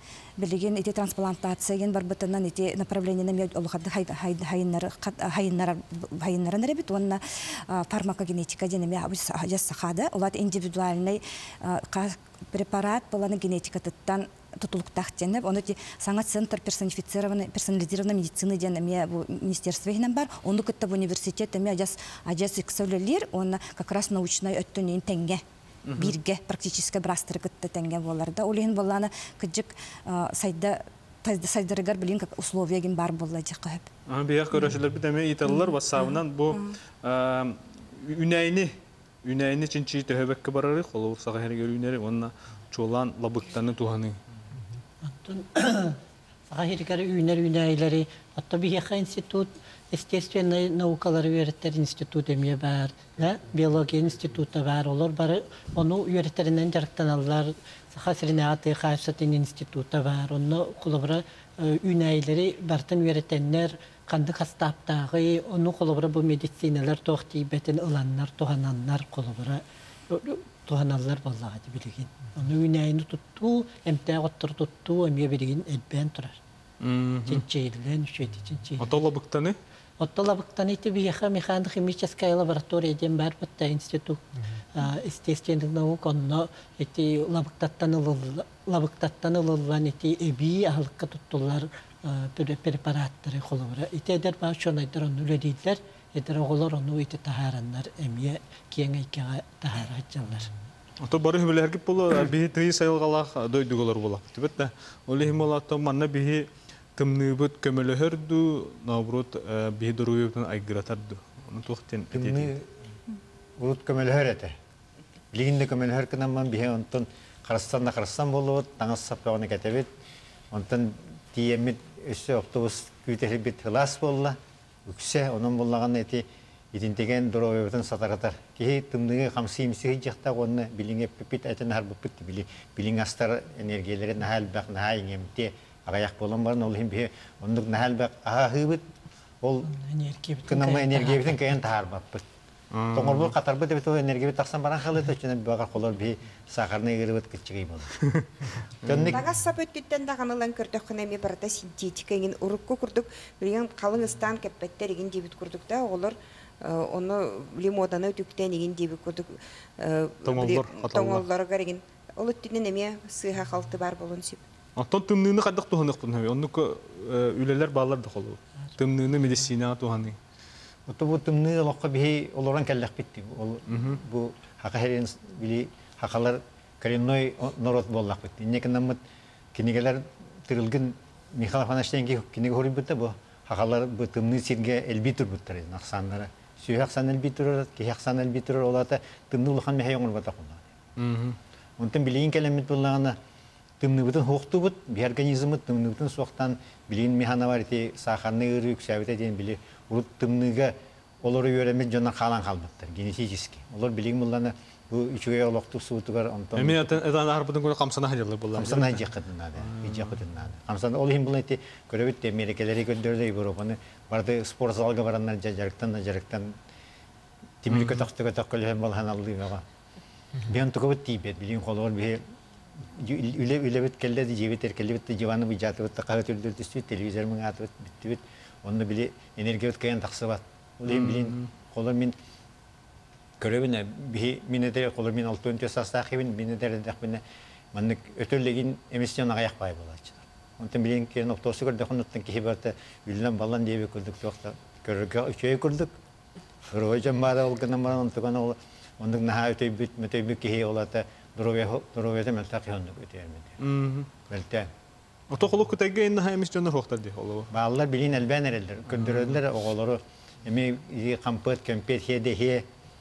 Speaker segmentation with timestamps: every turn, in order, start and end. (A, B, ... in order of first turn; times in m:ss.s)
0:00.4-0:25.4 A
0:25.9-0:26.2 B
0:26.0-0:33.9 A
0:34.1-0:44.2 B
0:36.0-0:36.8 A
0:45.0-0:46.0 C
0:46.5-1:16.4 C
1:16.8-1:17.4 B
1:17.3-1:19.0 C
1:18.8-1:19.6 B
1:20.0-1:24.2 C
1:24.8-1:40.5 C
1:41.0-1:52.5 B
1:52.1-1:52.7 D
1:53.6-1:54.6 D
1:55.3-1:59.9 D
2:00.5-2:18.9 D
2:19.4-2:19.7 D
2:19.6-2:21.4 C
2:20.5-2:22.2 D
2:22.7-2:23.3 B
2:22.9-2:28.0 D
2:28.0-2:29.2 B
2:28.8-2:29.2 D
2:29.1-2:44.4 E
2:40.2-2:41.2 B
2:44.8-2:50.2 B
2:50.9-2:59.0 D
2:53.7-2:54.0 B
2:59.6-3:10.7 D
3:11.0-3:11.4 B
3:11.8-3:13.2 D
3:13.8-3:27.0 D
3:26.6-3:29.1 B
3:28.6-3:36.6 D
3:29.6-3:30.2 B
3:37.6-3:39.7 D
3:37.7-3:38.1 B
3:40.5-3:42.2 D
3:42.9-3:52.2 D
3:50.9-3:51.5 B
3:53.4-3:57.2 D
3:57.7-4:06.0 D
4:06.7-4:13.6 D
4:13.6-4:14.1 B
4:14.3-4:14.7 D
4:15.3-4:17.5 B
4:17.5-4:22.7 D
4:18.9-4:19.4 B